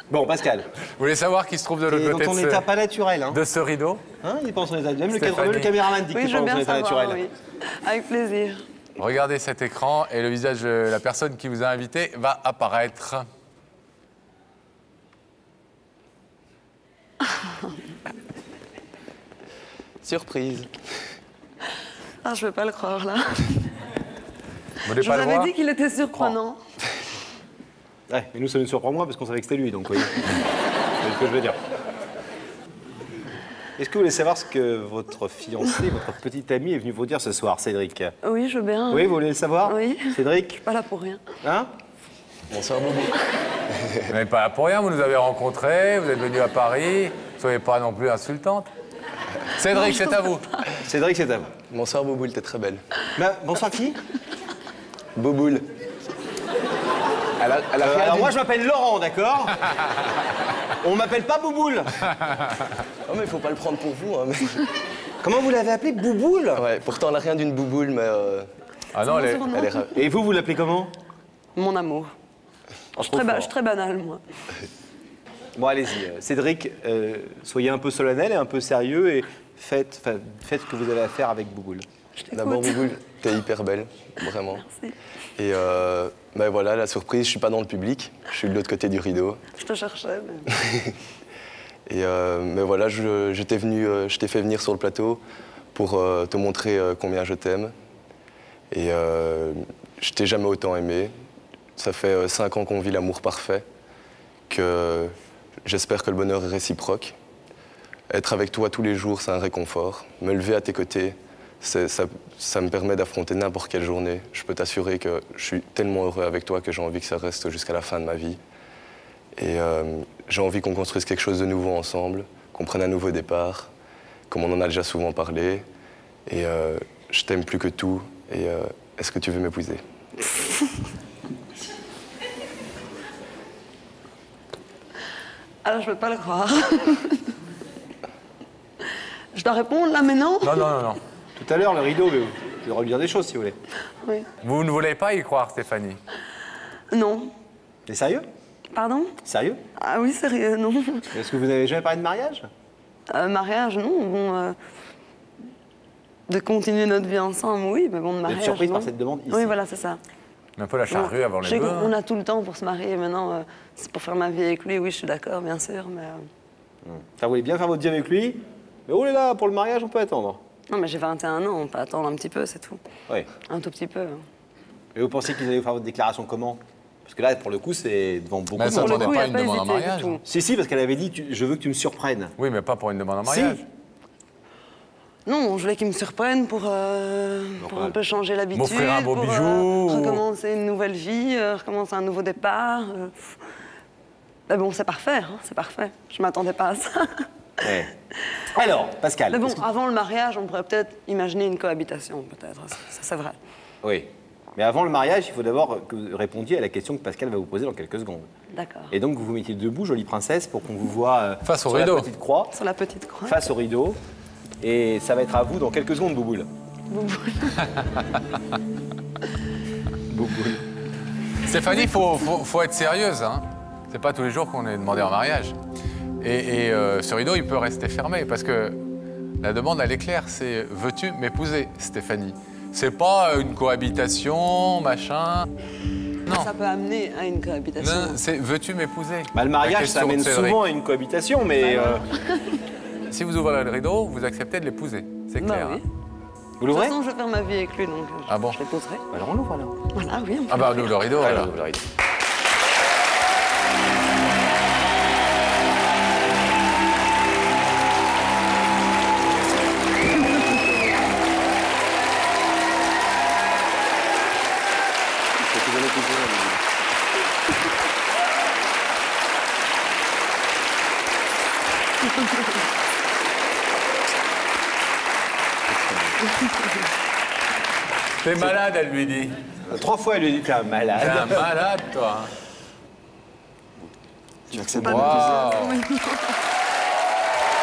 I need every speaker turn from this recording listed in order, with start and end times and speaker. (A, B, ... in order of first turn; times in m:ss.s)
0:00.1-0:00.7 A
0:01.0-0:02.6 B
0:01.9-0:03.4 A
0:03.3-0:04.0 B
0:04.2-0:07.2 A
0:05.1-0:05.8 B
0:06.1-0:08.6 C
0:09.0-0:13.3 B
0:20.0-0:20.7 D
0:22.2-0:23.6 C
0:24.8-0:25.5 B
0:25.0-0:26.6 C
0:28.1-0:30.3 A
0:31.0-0:31.6 A
0:33.8-0:38.1 A
0:38.2-0:39.1 C
0:38.9-0:40.6 A
0:39.6-0:41.2 C
0:41.4-0:41.7 A
0:42.5-0:43.2 D
0:43.7-0:44.1 D
0:44.1-0:48.7 B
0:49.6-0:50.4 B
0:49.8-0:50.4 C
0:50.8-0:51.5 A
0:51.7-0:52.8 D
0:53.2-0:54.0 A
0:55.2-0:55.6 D
0:57.4-0:58.3 D
0:57.8-0:59.7 A
1:00.8-1:01.9 A
1:03.0-1:04.7 D
1:05.2-1:06.6 A
1:06.6-1:08.5 D
1:08.9-1:09.4 B
1:09.0-1:09.9 C
1:09.5-1:10.0 D
1:09.9-1:10.9 A
1:11.5-1:12.1 C
1:13.0-1:13.5 A
1:13.0-1:14.2 C
1:15.5-1:21.8 A
1:22.2-1:22.8 C
1:22.3-1:24.6 D
1:24.5-1:24.9 C
1:25.4-1:29.4 D
1:29.6-1:30.5 C
1:30.6-1:31.0 D
1:31.9-1:35.2 D
1:35.7-1:37.7 D
1:38.7-1:41.1 D
1:41.8-1:43.6 D
1:44.5-1:45.1 D
1:45.6-1:47.1 D
1:48.1-1:58.4 D
1:59.4-2:03.7 D
2:04.3-2:05.6 D
2:06.3-2:09.8 D
2:15.6-2:17.3 C
2:19.3-2:20.7 C
2:20.4-2:21.0 B
2:21.4-2:23.6 A
2:24.4-2:26.0 B
2:26.9-2:27.3 C
2:27.8-2:28.2 A
2:28.7-2:29.1 C
2:29.2-2:29.6 A
2:29.7-2:31.1 C
2:31.1-2:32.5 A
2:33.1-2:34.6 C
2:36.3-2:40.0 C
2:38.2-2:39.6 A
2:40.6-2:41.9 B
2:40.9-2:46.2 C
2:46.8-2:50.4 A
2:50.7-2:52.8 C
2:53.5-2:54.2 C
2:54.9-2:59.2 A
2:58.5-3:00.2 B
2:58.6-3:00.2 C
3:00.2-3:02.3 A
3:02.4-3:03.6 B
3:03.2-3:03.6 A
3:05.2-3:13.4 C
3:07.6-3:08.0 A
3:08.5-3:10.2 B
3:14.5-3:17.7 C
3:17.6-3:17.9 A
3:18.5-3:19.6 A
3:19.3-3:23.4 C
3:23.8-3:28.3 A
3:28.5-3:28.9 C
3:28.9-3:32.5 A
3:31.4-3:32.1 B
3:32.5-3:33.4 C
3:33.2-3:34.0 A
3:34.6-3:36.5 A
3:36.9-3:37.8 C
3:40.1-3:40.6 A
3:41.4-3:45.6 B
3:46.2-3:48.8 B
3:49.4-3:55.5 B
3:56.3-3:58.2 C
3:57.8-4:00.6 B
3:59.3-4:02.0 A
4:01.6-4:02.6 C
4:03.1-4:05.8 B
4:05.4-4:05.8 C
4:06.6-4:07.0 A
4:06.7-4:09.0 C
4:08.3-4:08.6 B
4:09.1-4:09.7 A
4:09.9-4:10.9 C
4:10.5-4:11.5 B
4:11.2-4:11.6 A
4:25.4-4:26.6 D
4:35.7-4:36.1 A
4:38.2-4:39.4 B
4:39.7-4:41.5 A
4:40.9-4:42.3 B
4:44.5-4:45.4 A
4:44.6-4:45.0 D
4:44.8-4:45.8 B
4:44.8-4:46.4 C